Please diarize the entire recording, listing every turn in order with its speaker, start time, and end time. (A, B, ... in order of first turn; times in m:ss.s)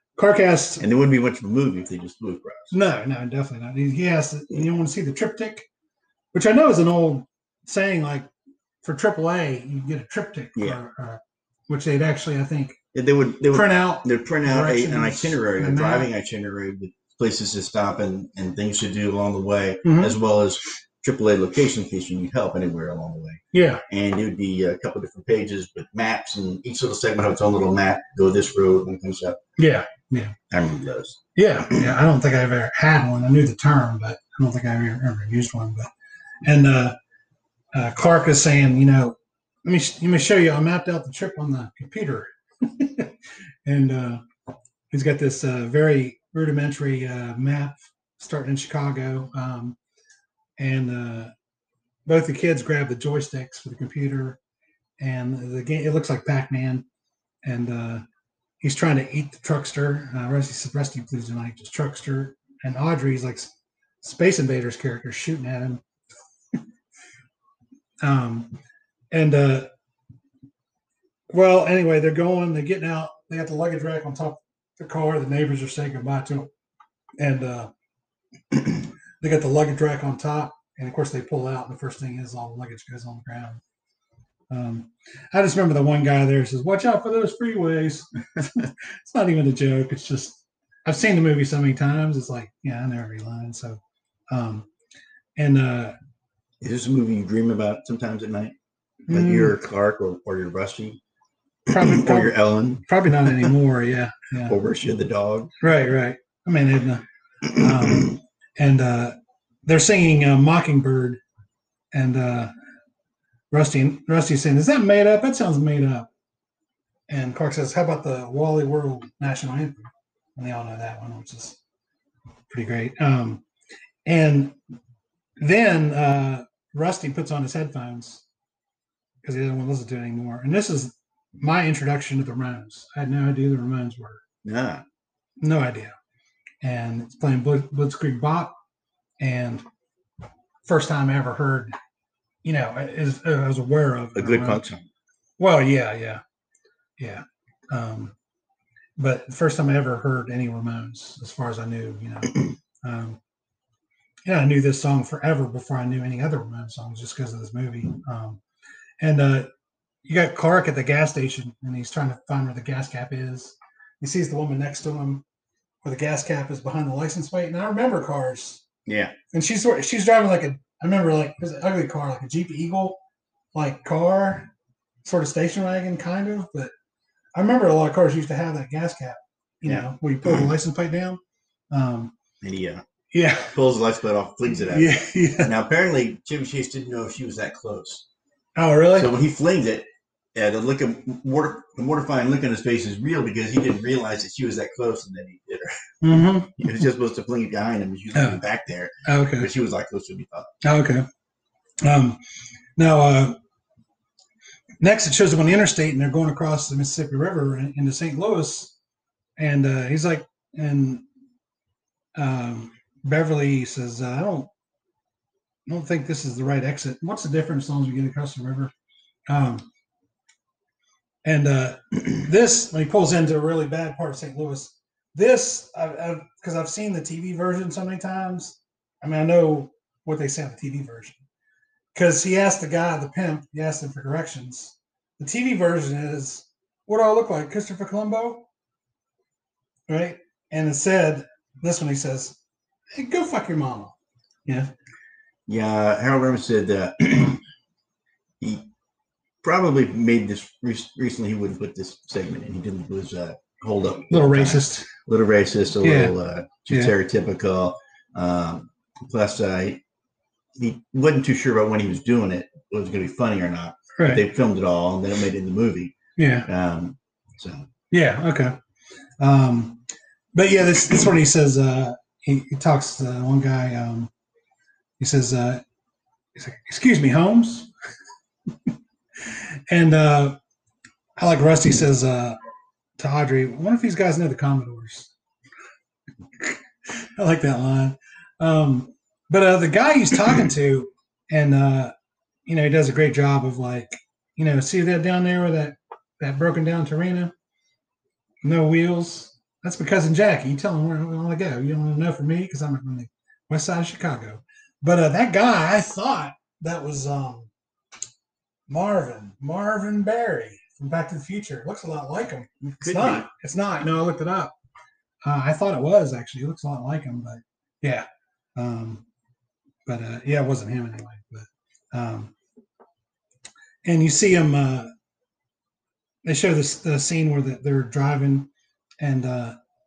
0:00.2-0:00.8 A
0:00.8-0:02.7 B
0:02.7-0:05.6 A
0:06.3-0:08.3 A
0:08.8-0:12.8 A
0:10.5-0:10.8 B
0:12.9-0:29.4 B
0:13.5-0:16.1 A
0:19.8-0:20.2 A
0:23.5-0:23.8 A
0:29.6-0:30.3 A
0:30.5-0:31.9 B
0:31.4-0:35.9 A
0:36.4-0:37.0 A
0:37.7-0:43.1 A
0:43.6-0:44.2 A
0:44.9-0:49.8 A
0:50.6-0:51.3 A
0:52.0-0:54.4 A
0:55.0-0:56.8 A
0:57.4-0:58.0 A
0:58.6-1:03.5 A
1:04.0-1:05.8 A
1:08.0-1:08.5 A
1:09.1-1:09.7 A
1:11.3-1:16.5 A
1:17.2-1:17.7 A
1:19.2-1:23.6 A
1:24.5-1:34.7 A
1:35.4-1:35.9 A
1:36.6-1:38.5 B
1:39.1-1:39.5 A
1:39.1-1:41.0 B
1:41.7-1:43.5 B
1:41.7-1:44.5 A
1:44.4-1:45.5 B
1:45.6-1:51.2 A
1:51.9-1:52.5 A
1:53.5-1:56.1 A
1:57.1-2:01.6 A
2:02.5-2:03.4 A
2:04.0-2:04.6 A
2:05.4-2:08.2 A
2:09.2-2:14.2 A
2:14.4-2:14.8 B
2:15.4-2:15.9 A
2:16.6-2:18.5 A
2:19.2-2:19.6 A
2:20.6-2:21.7 A
2:22.4-2:24.6 A
2:24.1-2:24.9 B
2:25.4-2:26.2 A
2:27.0-2:28.1 A
2:29.0-2:33.2 A
2:34.2-2:38.4 A
2:39.0-2:39.5 A
2:40.0-2:45.2 A
2:45.8-2:48.6 A
2:48.8-2:49.2 B
2:49.3-2:53.0 A
2:53.5-2:54.5 A
2:55.0-2:56.7 A
2:57.3-3:01.2 A
2:59.6-3:00.5 B
3:01.7-3:02.1 A
3:02.4-3:02.8 B
3:03.1-3:03.5 A
3:03.4-3:08.0 B
3:04.7-3:05.5 A
3:08.6-3:09.1 A
3:08.9-3:20.5 B
3:16.0-3:16.8 A
3:18.1-3:18.4 A
3:19.0-3:19.5 A
3:20.6-3:21.0 A
3:21.8-3:22.2 A
3:22.8-3:23.4 A
3:24.8-3:28.7 A
3:29.4-3:31.0 A
3:32.1-3:34.5 A
3:35.6-3:38.7 A
3:39.3-3:39.7 A
3:41.2-3:51.2 A
3:51.9-3:58.4 A
3:59.9-4:02.4 A
4:02.9-4:03.9 A
4:05.5-4:07.4 B
4:08.4-4:08.6 B
4:09.4-4:19.8 B
4:14.1-4:14.9 A
4:15.8-4:16.1 A
4:16.7-4:16.9 A
4:20.6-4:27.7 B
4:24.0-4:24.2 A
4:26.2-4:26.5 A
4:27.9-4:28.6 A
4:29.2-4:29.8 A
4:30.3-4:34.1 A
4:35.0-4:35.6 A
4:36.3-4:37.7 A
4:39.7-4:40.4 A
4:41.2-4:42.4 A
4:43.0-4:45.1 A
4:46.4-4:51.9 A
4:52.5-4:57.3 A
4:58.4-5:07.5 A
5:08.7-5:14.5 A
5:12.6-5:13.3 B
5:15.2-5:19.0 A
5:19.8-5:22.3 A
5:23.8-5:24.9 A
5:26.2-5:28.5 A
5:29.0-5:29.6 A